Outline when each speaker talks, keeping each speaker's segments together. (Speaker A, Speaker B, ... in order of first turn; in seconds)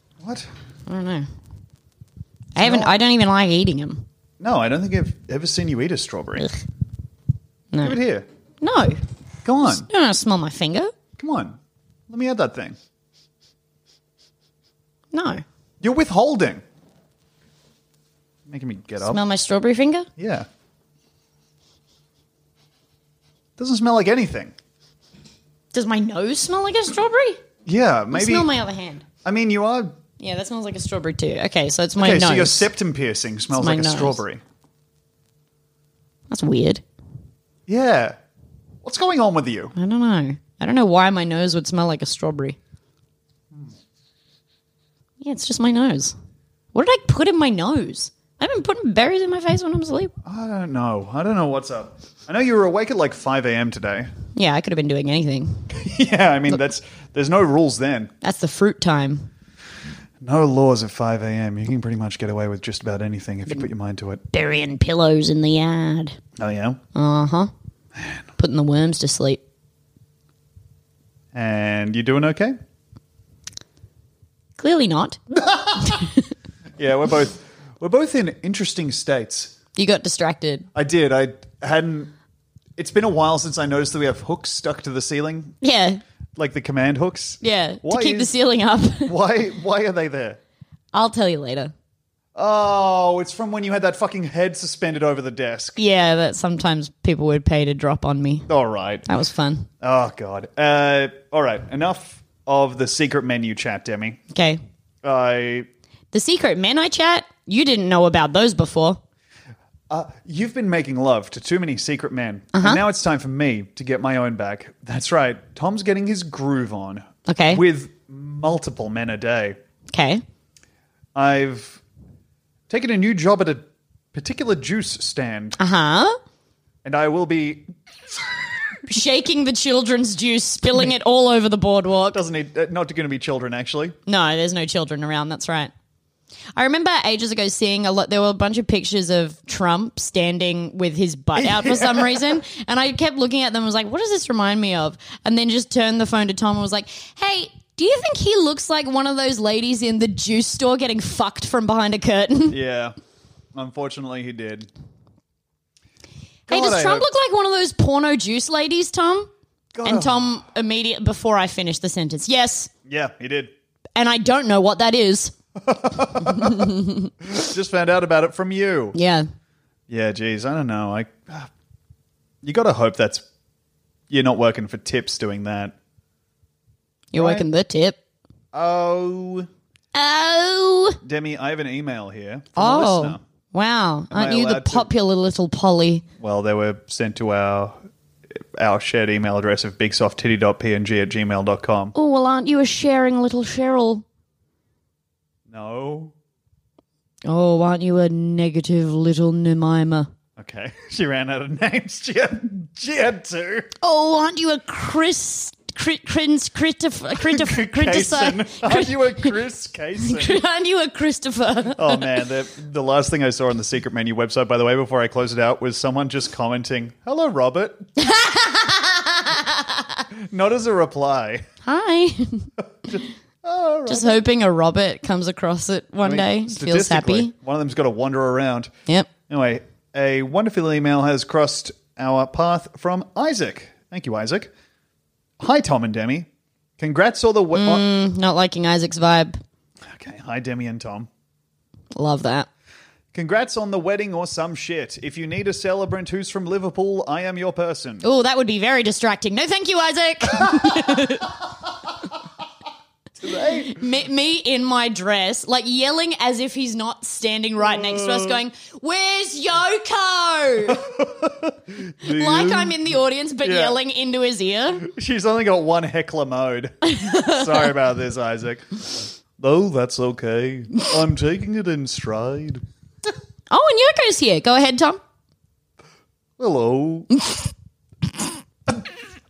Speaker A: 0.2-0.5, 2.6-2.9, 4.4-6.5, 7.8-8.3, 9.4-9.9, 11.2-12.8, 15.8-16.6, 18.5-19.2, 20.2-20.5, 23.6-24.6, 27.7-28.5, 29.2-30.0, 32.0-34.4, 37.7-38.2, 38.8-39.7, 50.2-54.1, 55.7-58.1, 60.2-64.2, 66.4-66.8, 71.3-72.6, 75.3-76.1, 76.8-79.5, 80.8-82.1, 82.8-85.6, 86.4-88.3, 89.0-90.4, 92.3-95.8, 98.5-99.1, 99.8-104.2, 105.0-105.7, 109.9-119.6, 121.2-121.8, 122.7-125.6, 126.8-127.7, 132.1-134.0, 141.3-142.4, 152.5-153.0, 153.6-154.7, 156.5-157.1, 159.7-160.4, 162.9-163.5, 165.6-169.0, 169.9-171.5, 172.4-173.2, 174.1-175.8, 177.2-177.4, 178.5-179.5, 181.0-183.2, 184.1-184.9, 186.2-187.8, 188.4-191.9, 195.5-196.1, 200.4-203.7, 207.2-210.4, 211.8-217.9, 220.2-221.4, 222.9-224.2, 226.0-228.7, 229.3-234.5, 235.4-237.9, 239.8-241.1, 243.1-248.0, 250.4-251.1, 253.2-253.8, 257.7-258.4, 260.7-262.8, 263.4-263.8, 264.8-272.6, 276.4-277.1
Speaker B: 0.9-1.3, 2.5-4.0, 7.7-8.0, 8.6-9.0, 9.7-10.9, 15.1-15.4, 19.0-20.1, 25.7-27.4, 28.1-29.1, 30.2-32.7, 33.5-34.2, 36.3-36.8, 39.8-42.6, 45.2-46.2, 46.7-50.1, 54.4-55.7, 58.2-59.3, 64.3-66.2, 67.0-67.5, 68.4-69.4, 74.6-75.2, 75.8-76.1, 79.8-80.7, 85.6-86.0, 87.4-89.1, 90.9-91.7, 95.8-98.5, 99.1-99.7, 104.3-104.6, 106.1-109.0, 112.5-112.8, 117.3-117.6, 119.9-120.2, 125.6-126.2, 128.9-132.2, 134.1-135.7, 136.6-152.6, 156.5-159.3, 159.8-162.7, 164.0-165.3, 166.2-167.1, 168.9-169.3, 177.1-178.0, 179.9-181.0, 182.6-186.1, 191.9-194.0, 197.2-200.1, 203.8-209.4, 210.0-212.1, 218.0-220.1, 221.7-222.5, 223.9-227.3, 237.5-239.4, 241.9-242.5, 248.0-251.3, 253.3-260.8, 262.0-264.9, 266.9-267.6, 273.5-275.0, 277.1-277.5